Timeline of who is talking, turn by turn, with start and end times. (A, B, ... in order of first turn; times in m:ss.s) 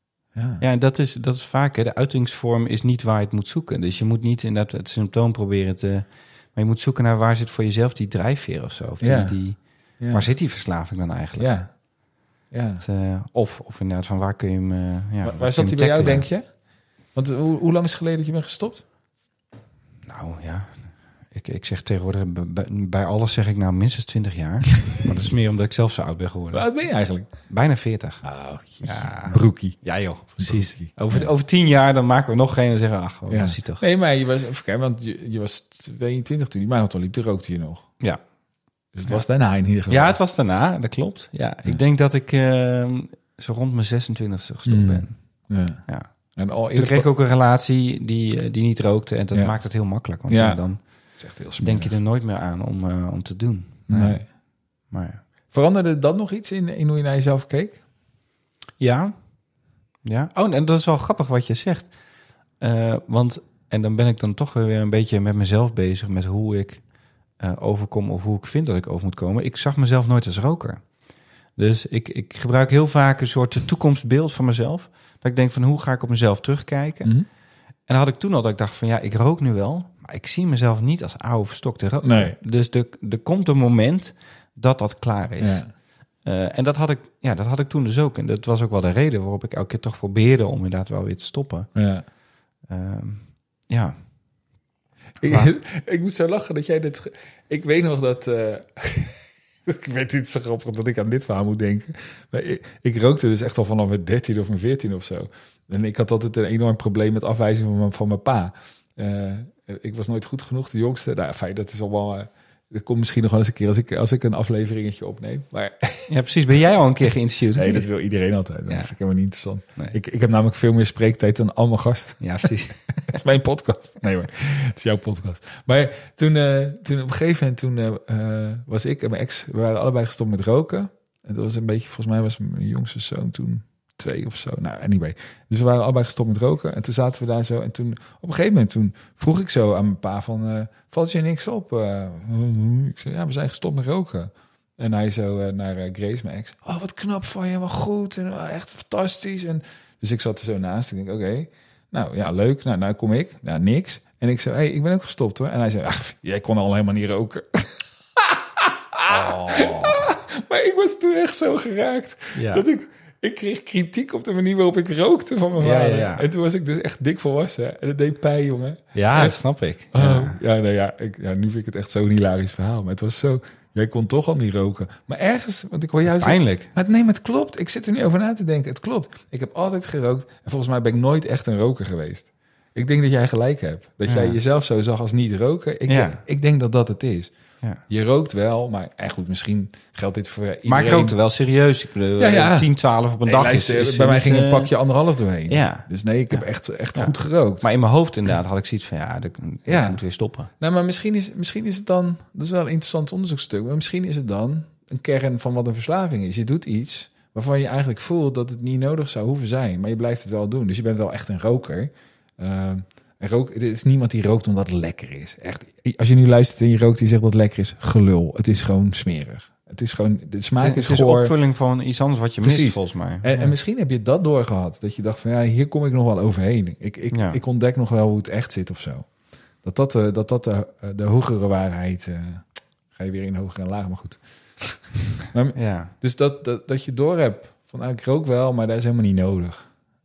0:00.3-0:00.6 A
0:00.6-0:11.5 B
0:09.0-0:10.3 A
0:11.4-0:12.8 A
0:12.8-0:16.3 B
0:15.2-0:16.6 A
0:17.1-0:18.8 A
0:20.1-0:26.7 B
0:26.5-0:27.5 A
0:27.5-0:28.3 B
0:28.2-0:31.3 A
0:28.8-0:33.8 B
0:33.3-0:37.9 A
0:38.9-0:40.2 A
0:39.9-0:54.4 B
0:44.7-0:47.1 A
0:49.3-0:49.6 A
0:50.3-0:51.9 A
0:53.9-0:54.2 A
0:54.9-0:55.2 B
0:55.5-0:57.8 A
0:58.8-0:59.2 B
1:00.0-1:02.0 B
1:02.6-1:17.3 B
1:17.9-1:31.7 B
1:22.0-1:22.4 A
1:25.4-1:25.7 A
1:31.8-1:32.0 A
1:32.6-1:34.0 B
1:35.2-1:56.1 A
1:56.1-1:57.9 B
1:57.6-2:49.4 A
1:58.7-1:58.9 B
2:02.2-2:02.8 B
2:39.1-2:40.1 B
2:42.3-2:42.7 B
2:45.6-2:46.3 B
2:48.9-2:50.4 B
2:49.9-3:07.3 A
2:56.1-2:56.7 B
3:04.1-3:04.4 B
3:05.9-3:06.2 B
3:07.9-3:11.2 A
3:10.7-3:14.7 B
3:12.2-3:12.7 A
3:13.2-3:17.6 A
3:15.5-3:16.4 B
3:17.0-3:20.5 B
3:19.7-3:41.3 A
3:40.6-3:43.5 B
3:42.4-3:49.1 A
3:47.1-3:47.4 B
3:49.6-3:59.7 A
3:55.6-3:55.9 B